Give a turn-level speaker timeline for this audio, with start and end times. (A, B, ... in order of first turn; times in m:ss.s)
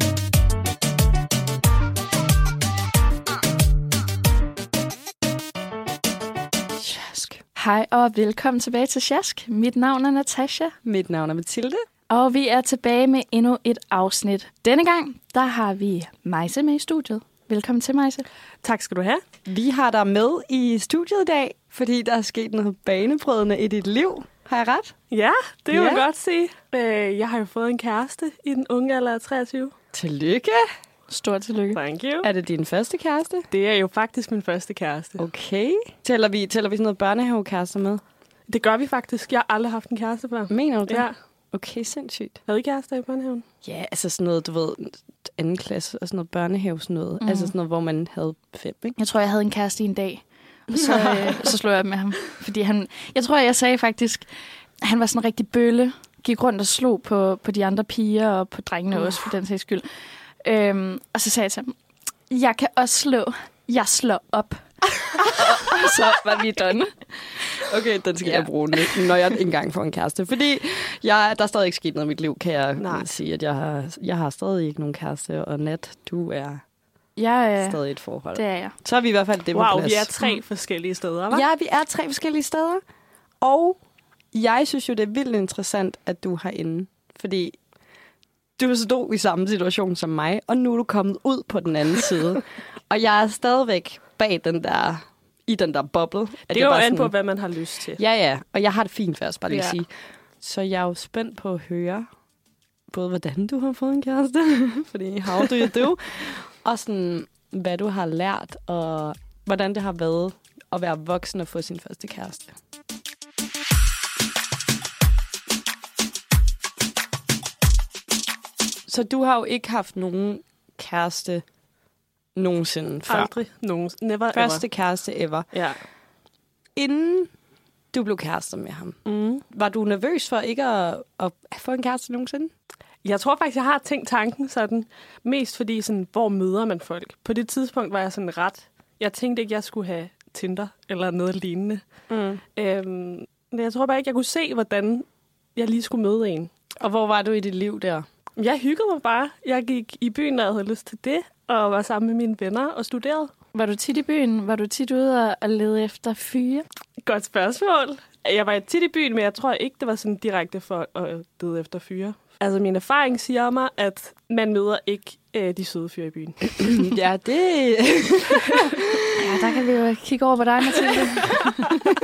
0:06.8-0:07.3 A
0:07.4-0:10.8 B
0:10.8-0:11.8 A
0:12.1-0:18.3 B
0:18.6-0:19.2 C
0:19.4-0:25.0 A
0:25.1-0:29.8 C
0:25.7-0:26.1 A
0:29.9-0:30.7 A
0:31.1-0:31.8 B
0:31.7-0:32.3 C
0:32.2-0:33.5 A
0:33.5-0:35.2 C
0:35.2-0:38.0 A
0:38.5-0:41.2 C
0:40.5-0:42.4 A
0:42.5-0:43.4 C
0:43.6-0:49.0 A
0:47.2-0:47.5 B
0:49.0-0:54.3 B
0:50.7-0:51.5 A
0:54.8-1:01.8 B
1:02.3-1:05.9 B
1:05.3-1:16.6 A
1:12.8-1:13.1 C
1:17.2-1:17.8 B
1:17.6-1:20.1 A
1:18.3-1:18.8 B
1:19.5-1:21.4 C
1:21.3-1:22.8 A
1:23.4-1:23.8 A
1:24.3-1:27.6 A
1:28.6-1:37.1 A
1:36.5-1:38.0 C
1:38.0-1:42.1 A
1:39.5-1:39.8 C
1:42.9-1:52.5 A
1:58.9-2:01.4 A
2:02.4-2:03.3 A
2:03.1-2:04.6 C
2:04.3-2:05.5 A
2:05.5-2:05.8 C
2:06.8-2:07.3 A
2:07.9-2:12.5 A
2:09.0-2:09.4 C
2:13.0-2:21.8 C
2:22.1-2:22.4 A
2:22.6-2:25.0 C
2:25.6-2:26.5 C
2:26.8-2:28.1 A
2:28.4-2:33.3 C
2:33.5-2:36.6 B
2:37.0-2:46.7 C
2:46.6-2:49.0 A
2:49.2-2:51.7 B